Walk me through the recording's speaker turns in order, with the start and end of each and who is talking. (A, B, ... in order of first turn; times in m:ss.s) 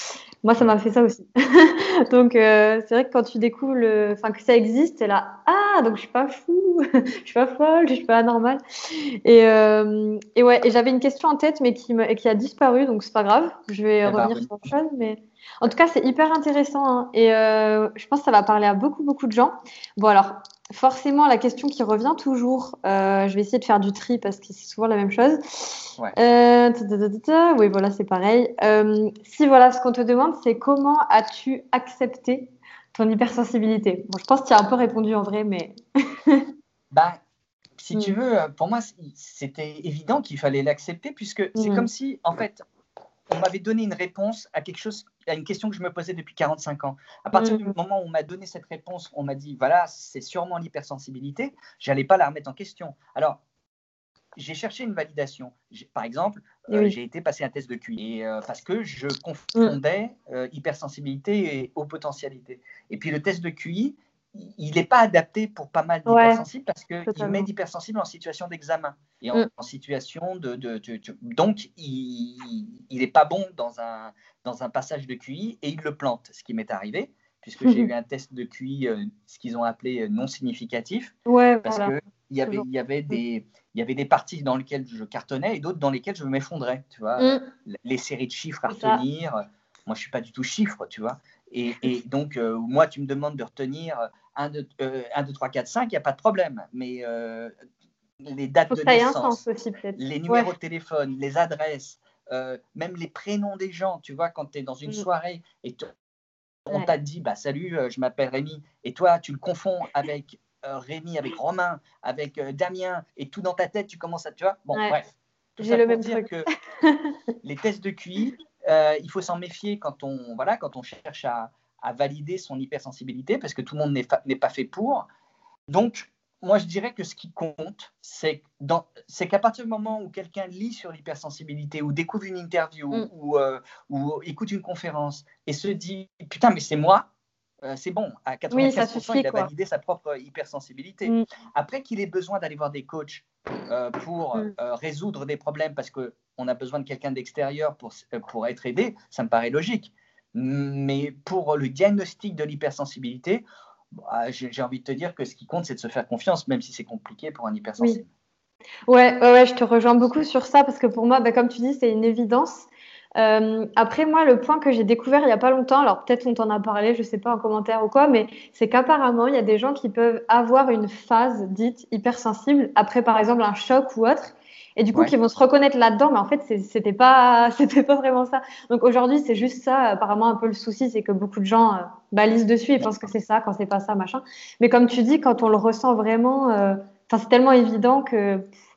0:00.4-0:36.4 A
0:14.0-0:14.7 B
0:36.9-0:37.2 B
0:37.8-0:42.6 B
0:37.9-0:38.2 A
0:41.5-0:41.9 A
0:43.3-0:53.4 B
0:47.4-0:47.7 A
0:54.4-1:21.1 B
0:56.7-0:57.0 A
1:06.0-1:06.4 A
1:07.0-1:07.5 A
1:17.6-1:17.9 A
1:21.2-1:21.9 A
1:21.6-1:37.5 B
1:27.2-1:27.4 A
1:28.7-1:29.0 A
1:38.2-1:39.4 B
1:38.7-1:40.5 A
1:40.0-1:45.9 B
1:46.6-1:56.5 B
1:55.6-1:57.1 A
1:57.4-2:05.0 B
2:05.7-2:17.1 B
2:17.6-2:38.1 B
2:18.5-2:19.5 A
2:38.9-3:08.5 A
3:02.8-3:03.1 B